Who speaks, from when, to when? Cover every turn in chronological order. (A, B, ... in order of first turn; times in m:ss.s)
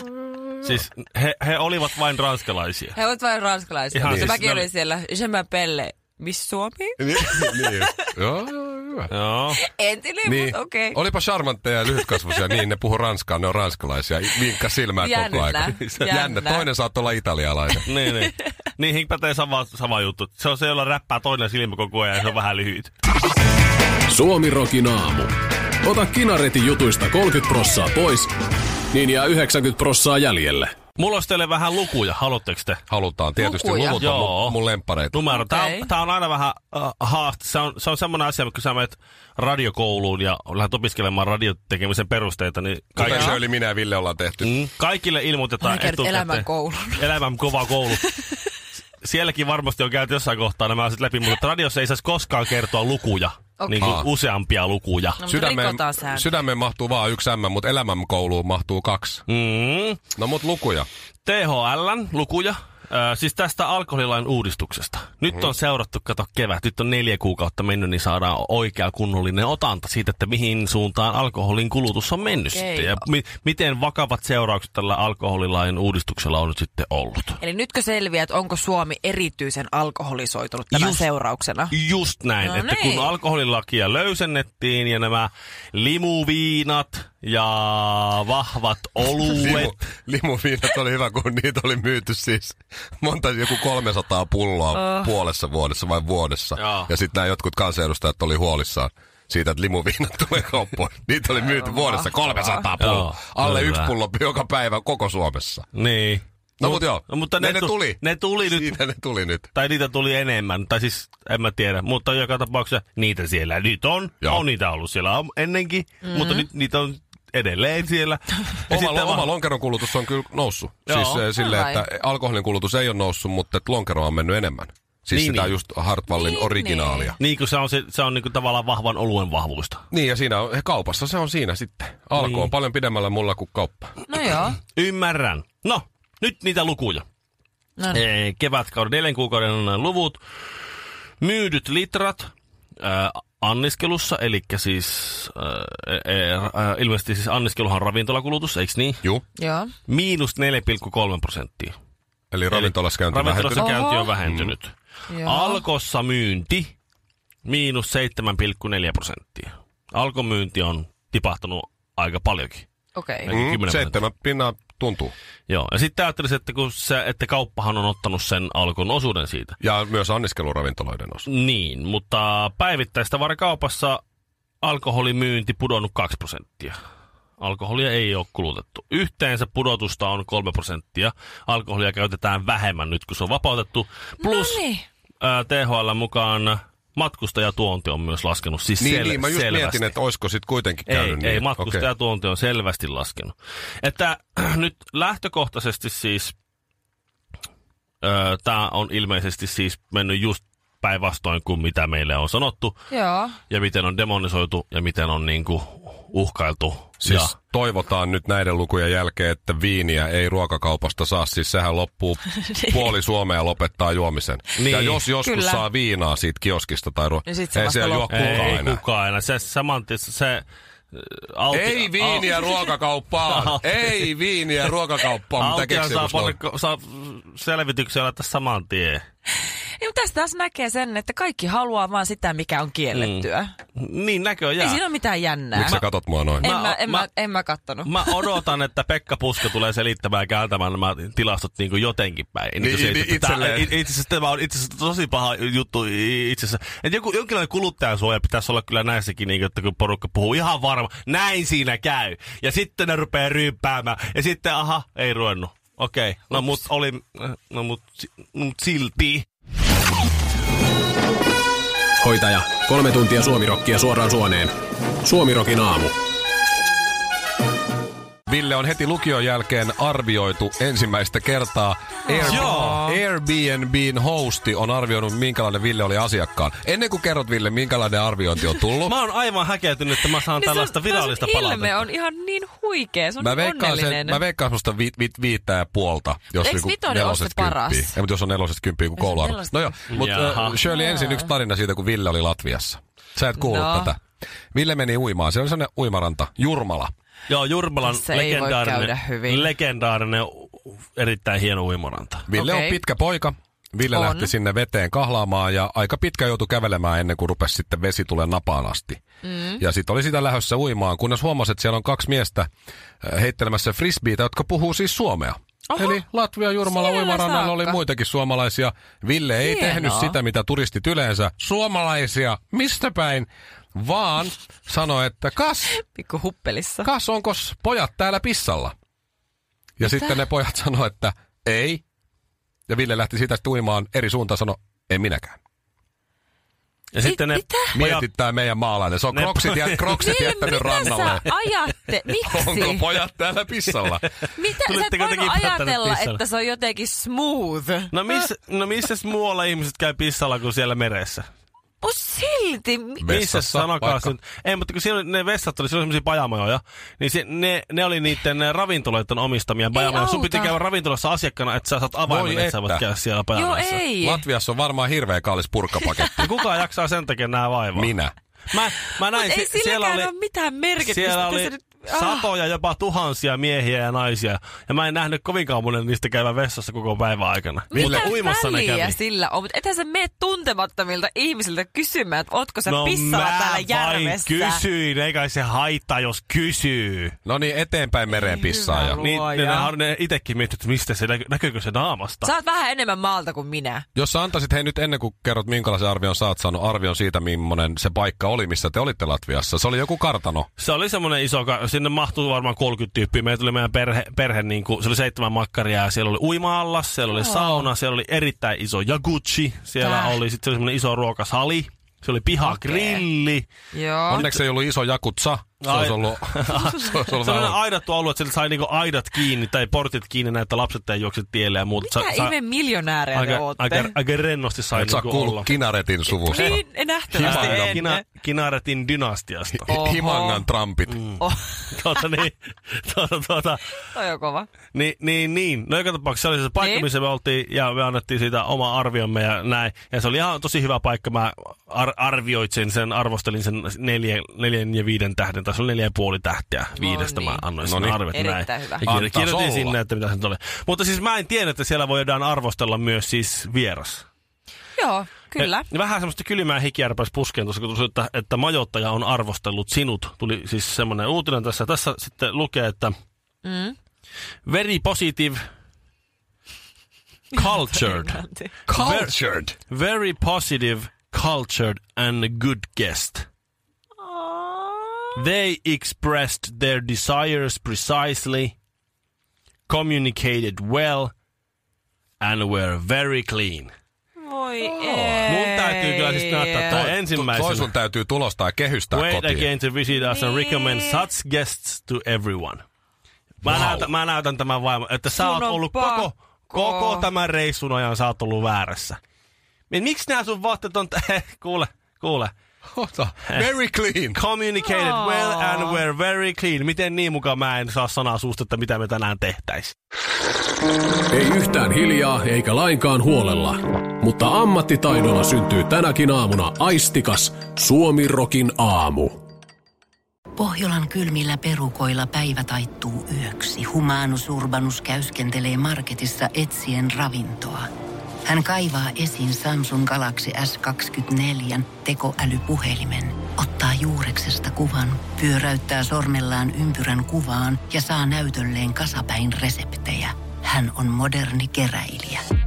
0:00.6-0:03.0 A
0:03.0-0:07.9 B
0:03.9-0:04.7 A
0:04.0-0:04.3 C
0:07.0-0:09.1 C
0:09.1-0:09.6 A
0:09.5-0:11.0 B
0:10.2-0:17.9 C
0:12.0-0:12.3 B
0:15.0-0:16.7 B
0:15.7-0:16.1 A
0:17.9-0:22.9 A
0:24.1-0:28.3 D
0:28.9-0:30.7 D
0:31.0-0:32.8 A
0:32.9-0:35.2 C
0:33.4-0:34.1 B
0:34.0-0:34.6 A
0:35.1-0:43.4 A
0:35.3-0:35.9 B
0:43.0-0:44.5 C
0:43.0-0:43.4 B
0:44.4-0:48.1 A
0:45.6-0:47.2 B
0:47.9-0:48.4 B
0:49.0-0:55.2 A
0:53.6-0:54.0 B
0:53.8-0:54.1 C
0:55.2-0:56.3 B
0:55.2-0:59.2 C
0:59.3-1:00.0 A
1:00.2-1:00.9 C
1:01.2-1:17.4 A
1:12.5-1:13.1 B
1:17.4-1:21.7 B
1:20.7-1:21.1 A
1:21.7-1:29.8 A
1:22.4-1:23.1 B
1:29.3-1:45.7 C
1:34.7-1:35.1 B
1:36.6-1:36.9 A
1:41.4-1:42.7 B
1:42.8-1:43.9 A
1:45.7-1:48.8 A
1:46.6-1:49.5 C
1:49.6-1:59.3 A
1:56.0-1:56.5 B
1:58.7-2:07.2 C
2:00.9-2:01.2 A
2:01.4-2:01.8 B
2:05.1-2:05.6 A
2:06.1-2:07.2 B
2:07.2-2:09.8 A
2:09.9-2:13.9 C
2:12.2-2:12.5 A
2:14.1-2:14.6 B
2:14.6-2:17.0 A
2:17.8-2:18.0 B
2:17.9-2:20.2 A
2:21.2-2:29.1 A
2:29.4-2:29.7 B
2:29.9-2:31.7 A
2:32.3-2:34.6 C
2:32.5-2:34.7 A
2:33.6-2:34.1 B
2:35.1-2:35.6 B
2:35.2-2:36.7 A
2:37.5-2:42.6 A
2:43.0-2:43.3 B
2:43.2-2:44.0 A
2:43.3-2:45.1 C
2:45.5-2:49.6 A
2:49.6-2:51.3 C
2:51.3-2:54.0 A
2:54.6-2:56.8 A
2:57.4-3:04.6 A
3:04.2-3:04.9 B
3:05.2-3:09.9 A
3:08.8-3:11.9 C
3:10.9-3:16.3 A
3:18.0-3:22.8 A
3:22.9-3:23.4 B
3:23.5-3:27.4 A
3:27.0-3:38.8 C
3:32.3-3:32.8 B
3:34.6-3:35.0 A
3:35.2-3:35.7 B
3:37.2-3:38.5 B
3:38.1-3:42.5 A
3:41.5-3:46.4 C
3:43.2-3:44.1 A
3:45.4-3:49.0 A
3:49.8-3:53.5 B
3:52.9-3:53.2 A
3:53.8-3:54.8 A
3:54.6-3:55.8 B
3:55.5-3:56.4 C
3:56.4-3:58.4 B
3:56.4-3:57.1 A
3:57.9-4:19.2 A
4:02.6-4:03.8 C
4:22.0-4:25.9 D
4:28.3-4:39.0 C
4:32.1-4:33.0 B
4:32.3-4:32.8 A
4:38.8-4:41.9 A
4:40.2-4:44.2 B
4:43.2-4:54.0 C
4:46.3-4:48.0 B
4:49.0-4:49.9 B
4:49.9-4:50.6 A
4:50.6-4:51.3 B
4:53.4-4:53.9 B
4:54.5-4:56.9 C
4:57.3-5:02.3 A
4:57.8-4:59.5 B
5:02.3-5:09.0 C
5:02.4-5:02.8 B
5:03.9-5:04.3 B
5:09.2-5:09.6 B
5:09.6-5:12.5 C
5:13.0-5:25.8 C
5:15.7-5:16.0 B
5:16.7-5:17.8 B
5:19.4-5:20.2 B
5:25.7-5:26.9 B
5:26.8-5:28.7 C
5:29.8-5:31.8 C
5:29.8-5:30.2 B
5:32.7-5:35.4 C
5:36.9-5:38.1 A
5:37.0-5:37.8 B
5:37.8-5:41.2 C
5:39.1-5:40.0 A
5:40.0-5:42.9 B
5:42.2-5:44.0 C
5:44.4-5:48.2 B
5:44.6-5:46.2 A
5:47.9-5:51.3 A
5:51.8-5:53.1 B
5:53.0-5:54.1 C
5:53.1-6:03.8 A
5:59.7-6:00.6 B
6:02.1-6:02.8 C
6:03.4-6:04.2 B
6:04.0-6:06.2 C
6:06.2-6:08.0 A
6:07.8-6:08.1 C
6:08.5-6:10.1 A
6:08.9-6:12.3 B
6:10.8-6:19.0 A
6:17.7-6:24.6 B
6:17.8-6:18.1 C
6:22.7-6:27.2 A
6:27.2-6:29.0 C
6:28.1-6:29.7 B
6:29.0-6:32.3 A
6:32.2-6:33.9 B
6:34.0-6:40.5 C
6:40.6-6:53.4 A
6:47.1-6:47.7 B
6:49.8-6:50.2 B
6:52.4-6:53.0 B
6:53.7-6:54.3 B
6:54.1-6:57.6 C
6:55.6-7:02.3 A
6:56.5-6:56.9 B
7:01.8-7:04.0 B
7:03.1-7:05.5 A
7:04.7-7:07.8 C
7:06.1-7:08.0 B
7:06.3-7:06.6 A
7:07.2-7:09.7 A
7:09.5-7:11.0 C
7:09.7-7:10.5 B
7:10.9-7:13.8 A
7:11.2-7:12.1 B
7:13.8-7:14.5 B
7:14.7-7:34.0 A
7:16.6-7:16.9 B
7:26.8-7:27.5 B
7:27.6-7:28.0 C
7:28.1-7:28.9 B
7:28.8-7:29.8 C
7:34.8-7:35.7 B
7:35.4-7:43.0 A
7:43.4-7:43.8 B
7:44.5-7:45.4 A
7:47.3-7:48.5 B
7:47.3-7:53.3 A
7:48.7-7:49.5 C
7:54.0-7:55.2 B
7:55.2-7:58.5 A
7:59.7-8:01.1 A
8:02.2-8:03.7 A
8:04.2-8:06.9 B
8:04.6-8:05.2 C
8:05.3-8:07.7 A
8:06.7-8:09.5 C
8:08.9-8:12.6 A
8:09.9-8:11.1 B
8:13.4-8:19.0 A
8:13.4-8:13.9 C
8:15.1-8:17.1 B
8:19.7-8:22.3 A
8:22.7-8:24.2 C
8:24.1-8:29.8 A
8:24.6-8:25.8 B
8:31.1-8:39.2 D
8:40.4-8:47.7 E
8:48.2-9:02.2 E